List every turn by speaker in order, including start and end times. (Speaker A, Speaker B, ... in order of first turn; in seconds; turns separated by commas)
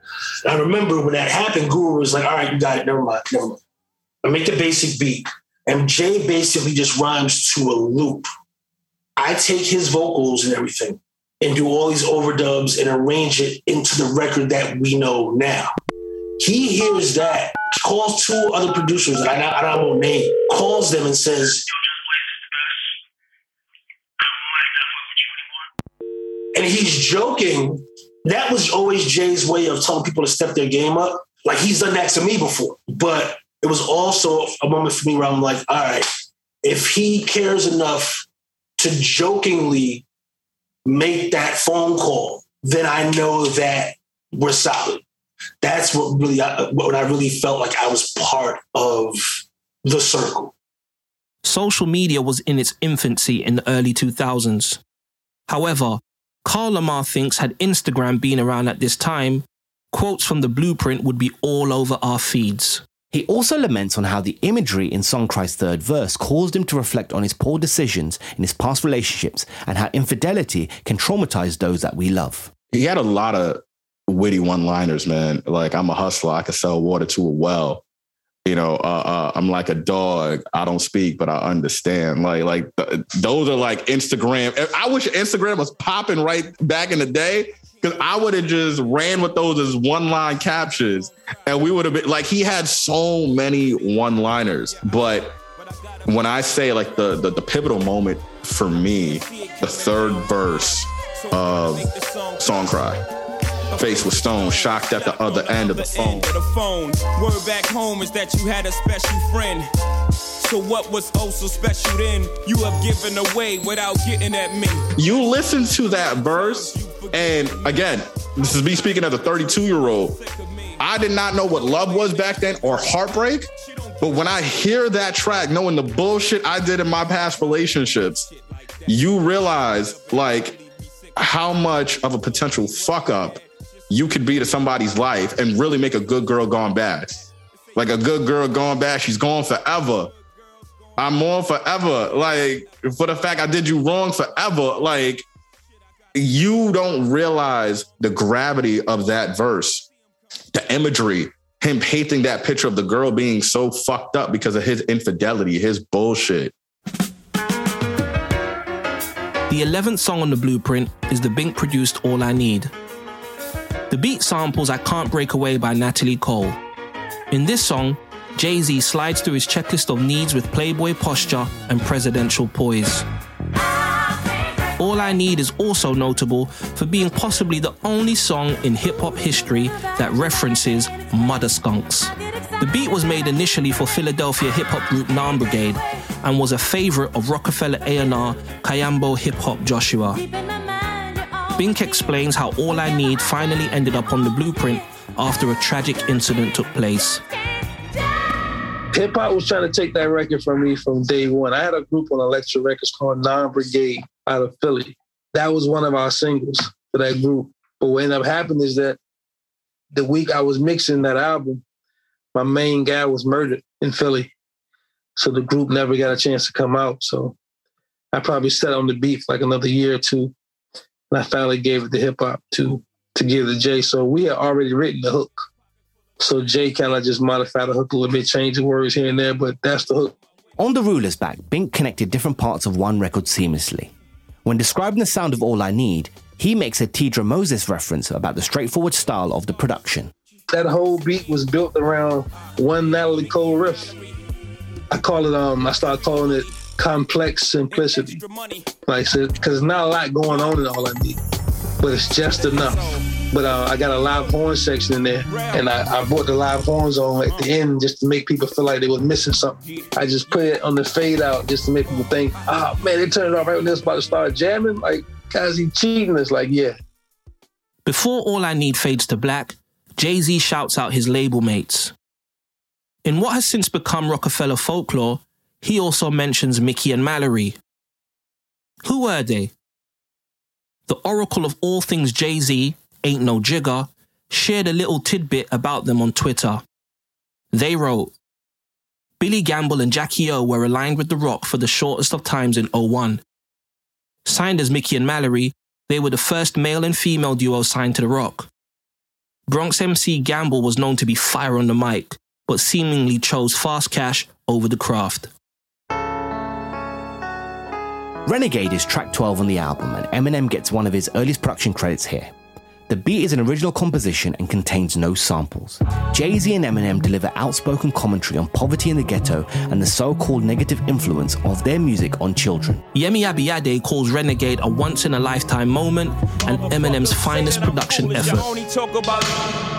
Speaker A: 0.4-3.6, Speaker A: 4.2-8.3, Speaker A: 9.2-15.7, Speaker A: 16.4-22.2, Speaker A: 24.2-25.3, Speaker A: 26.5-36.1, Speaker A: 36.6-38.2, Speaker A: 38.8-40.0, Speaker A: 40.8-45.0, Speaker A: 45.6-50.5, Speaker B: 51.4-54.8, Speaker B: 55.5-62.8, Speaker C: 63.1-72.5, Speaker D: 72.7-77.8, Speaker D: 78.4-95.3, Speaker E: 85.8-92.8, Speaker E: 93.4-97.2, Speaker D: 96.0-103.0, Speaker E: 99.1-102.8, Speaker E: 103.7-109.7, Speaker D: 103.7-106.3, Speaker E: 110.4-136.1, Speaker D: 115.0-120.2, Speaker D: 120.8-128.3, Speaker D: 128.9-130.6, Speaker D: 131.2-140.1, Speaker E: 137.7-143.5, Speaker D: 141.0-145.2, Speaker E: 146.1-146.6, Speaker D: 146.1-149.8, Speaker D: 150.5-156.5, Speaker B: 159.5-162.7, Speaker B: 163.9-166.6, Speaker B: 167.3-173.1, Speaker B: 174.8-190.2, Speaker B: 191.5-197.2, Speaker F: 198.9-209.0, Speaker F: 209.9-211.6, Speaker F: 212.3-214.3, Speaker F: 215.2-217.3, Speaker F: 218.1-220.3, Speaker F: 221.1-225.4, Speaker F: 226.2-230.1, Speaker C: 230.6-233.9, Speaker C: 234.4-240.1, Speaker F: 240.5-243.9, Speaker E: 242.3-244.2, Speaker F: 244.9-248.2, Speaker E: 245.6-246.7, Speaker E: 247.7-248.7, Speaker F: 248.8-251.2, Speaker F: 251.8-266.8, Speaker E: 252.1-253.1, Speaker E: 253.6-254.5, Speaker E: 255.3-257.6, Speaker E: 259.6-263.0, Speaker B: 267.8-271.9, Speaker B: 273.0-277.6, Speaker B: 278.8-279.5, Speaker B: 280.9-286.6, Speaker B: 287.5-288.1, Speaker B: 289.2-293.2, Speaker B: 294.2-298.5, Speaker B: 299.5-305.3, Speaker C: 308.2-312.3, Speaker C: 312.9-322.8, Speaker B: 322.9-328.5, Speaker E: 326.4-329.5